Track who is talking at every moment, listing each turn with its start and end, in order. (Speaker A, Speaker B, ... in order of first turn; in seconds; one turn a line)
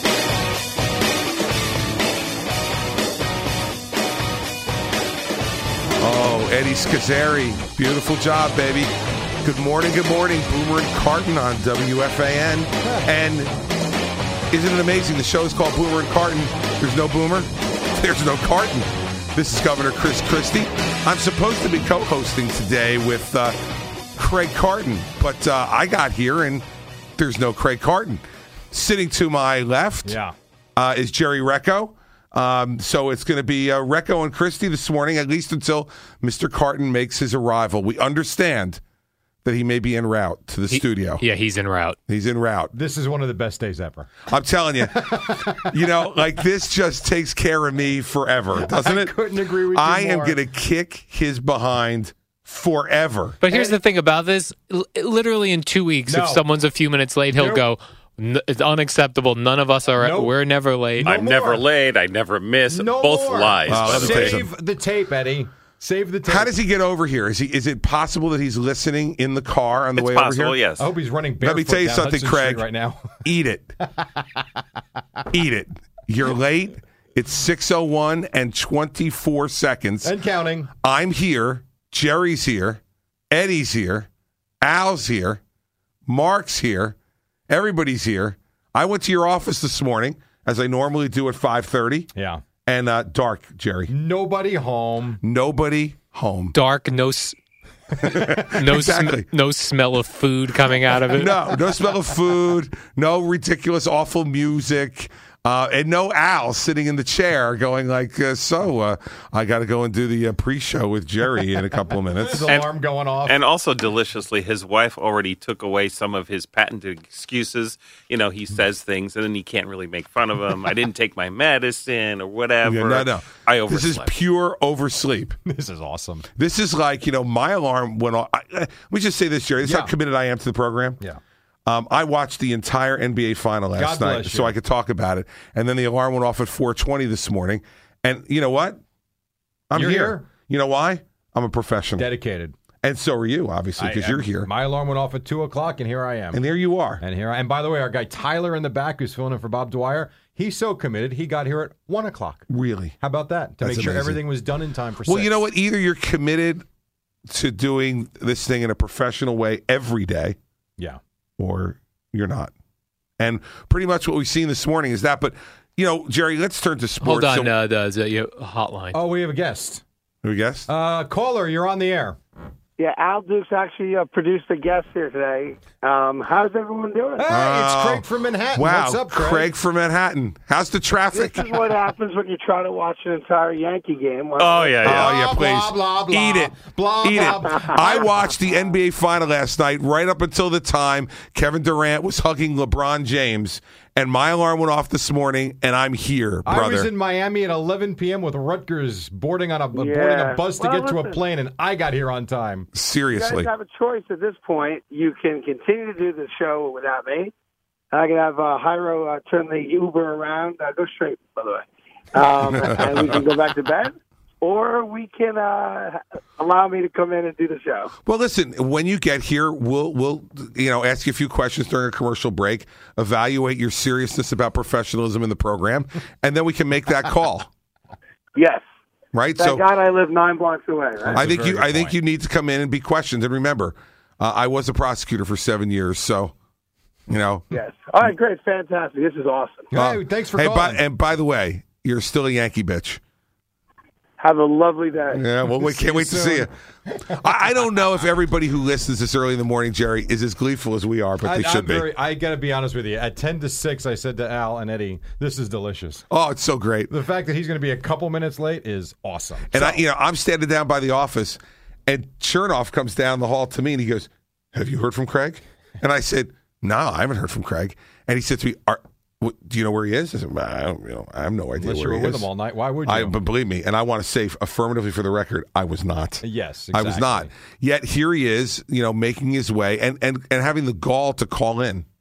Speaker A: 6.0-13.5
Speaker B: 12.8-13.1
Speaker A: 14.5-23.6
Speaker A: 24.2-26.7
Speaker A: 27.2-30.2
Speaker B: 30.1-30.3
Speaker A: 30.8-38.8
Speaker A: 39.5-41.2
Speaker C: 40.7-42.0
Speaker A: 42.1-42.7
Speaker B: 42.7-44.2
Speaker A: 44.3-53.4
Speaker B: 44.9-45.7
Speaker B: 48.6-50.4
Speaker C: 53.4-61.1
Speaker B: 53.5-53.8
Speaker B: 56.1-56.5
Speaker B: 57.3-57.7
Speaker B: 60.0-60.3
Speaker B: 61.0-61.6
Speaker D: 61.0-64.4
Speaker B: 62.7-66.5
Speaker A: 63.7-64.5
Speaker A: 66.2-70.6
Speaker D: 70.0-70.8
Speaker B: 70.8-73.1
Speaker A: 71.4-72.6
Speaker A: 73.2-73.7
Speaker B: 74.2-74.4
Speaker A: 75.3-80.1
Speaker B: 80.0-80.7
Speaker A: 80.7-84.1
Speaker A: 84.6-85.4
Speaker A: 86.1-87.0
Speaker A: 87.5-92.1
Speaker B: 92.2-92.4
Speaker A: 92.7-93.9
Speaker B: 93.9-95.2
Speaker A: 95.2-96.5
Speaker C: 96.5-97.3
Speaker A: 98.1-99.3
Speaker C: 98.5-101.5
Speaker A: 101.1-112.5
Speaker B: 112.2-113.3
Speaker D: 113.2-124.1
Speaker A: 122.7-125.3
Speaker B: 125.5-126.2
Speaker A: 126.4-131.0
Speaker B: 129.6-129.9
Speaker A: 131.7-138.8
Speaker B: 133.8-134.6
Speaker A: 139.7-142.1
Speaker B: 139.7-140.3
Speaker B: 142.0-142.5
Speaker A: 142.8-144.5
Speaker B: 143.8-146.4
Speaker A: 146.3-147.0
Speaker B: 147.0-152.5
Speaker A: 152.5-153.0
Speaker B: 153.0-155.3
Speaker A: 153.6-154.2
Speaker A: 155.1-156.6
Speaker A: 157.2-160.4
Speaker A: 161.4-162.5
Speaker A: 163.2-167.5
Speaker C: 167.0-169.0
Speaker B: 168.9-169.8
Speaker A: 170.2-170.7
Speaker B: 170.7-172.2
Speaker E: 172.8-177.2
Speaker B: 177.2-179.5
Speaker A: 177.2-181.5
Speaker E: 181.1-184.8
Speaker D: 184.4-185.1
Speaker A: 184.8-196.9
Speaker B: 184.8-187.8
Speaker E: 187.5-188.0
Speaker B: 196.5-202.7
Speaker E: 199.8-201.2
Speaker A: 202.7-203.5
Speaker E: 203.2-207.3
Speaker E: 207.9-217.9
Speaker A: 212.6-213.2
Speaker A: 218.1-227.5
Speaker E: 228.4-228.6
Speaker A: 229.1-229.7
Speaker E: 229.4-231.2
Speaker B: 231.0-231.9
Speaker A: 231.1-236.3
Speaker A: 237.1-237.4
Speaker E: 237.5-239.7
Speaker B: 239.7-240.8
Speaker A: 239.7-243.0
Speaker E: 244.2-245.2
Speaker A: 245.1-246.5
Speaker B: 245.4-247.1
Speaker A: 247.1-251.9
Speaker B: 251.2-256.0
Speaker A: 256.1-256.9
Speaker B: 256.9-259.8
Speaker A: 259.5-272.3
Speaker B: 271.6-273.2
Speaker A: 272.9-281.9
Speaker B: 276.2-277.3